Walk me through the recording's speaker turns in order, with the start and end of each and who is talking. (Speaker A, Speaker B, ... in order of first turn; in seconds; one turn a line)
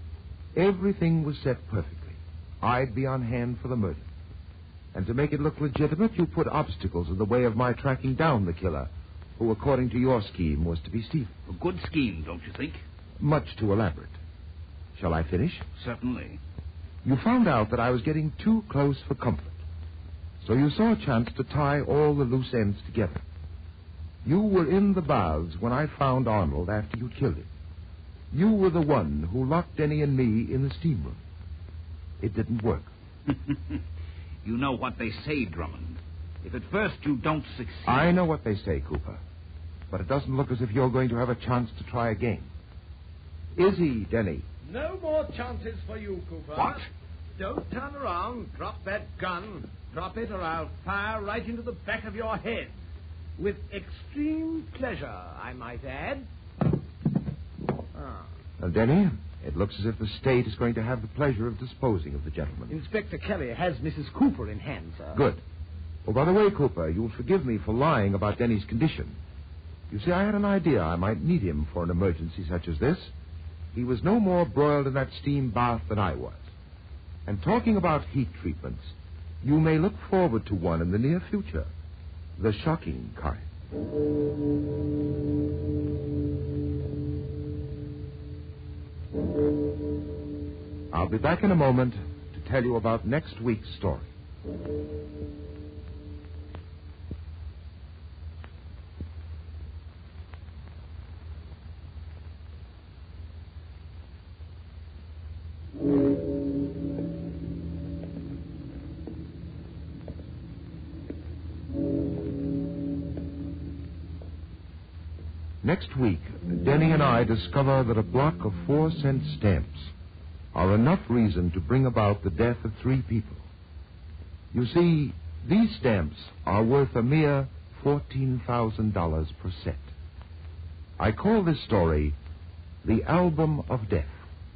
Speaker A: 0.6-4.1
Speaker A: 4.9-11.3
Speaker B: 11.5-12.8
Speaker A: 13.2-14.2
Speaker A: 14.9-15.7
Speaker B: 15.8-16.4
Speaker A: 17.0-19.6
Speaker A: 20.4-23.2
Speaker A: 24.2-27.5
Speaker A: 28.3-31.2
Speaker A: 32.2-32.9
Speaker B: 33.3-33.8
Speaker B: 34.4-38.1
Speaker A: 37.9-39.2
Speaker A: 39.9-42.5
Speaker A: 43.6-44.5
Speaker C: 44.6-46.9
Speaker C: 47.4-52.8
Speaker C: 53.4-56.3
Speaker C: 58.0-58.3
Speaker A: 58.6-62.8
Speaker C: 62.7-65.2
Speaker A: 65.1-65.4
Speaker A: 66.0-69.2
Speaker A: 69.9-73.1
Speaker A: 73.7-76.5
Speaker A: 77.3-81.7
Speaker A: 82.4-83.5
Speaker A: 90.9-94.1
Speaker A: 115.6-119.9
Speaker A: 120.5-123.4
Speaker A: 124.5-129.9
Speaker A: 131.0-132.2
Speaker A: 132.8-134.2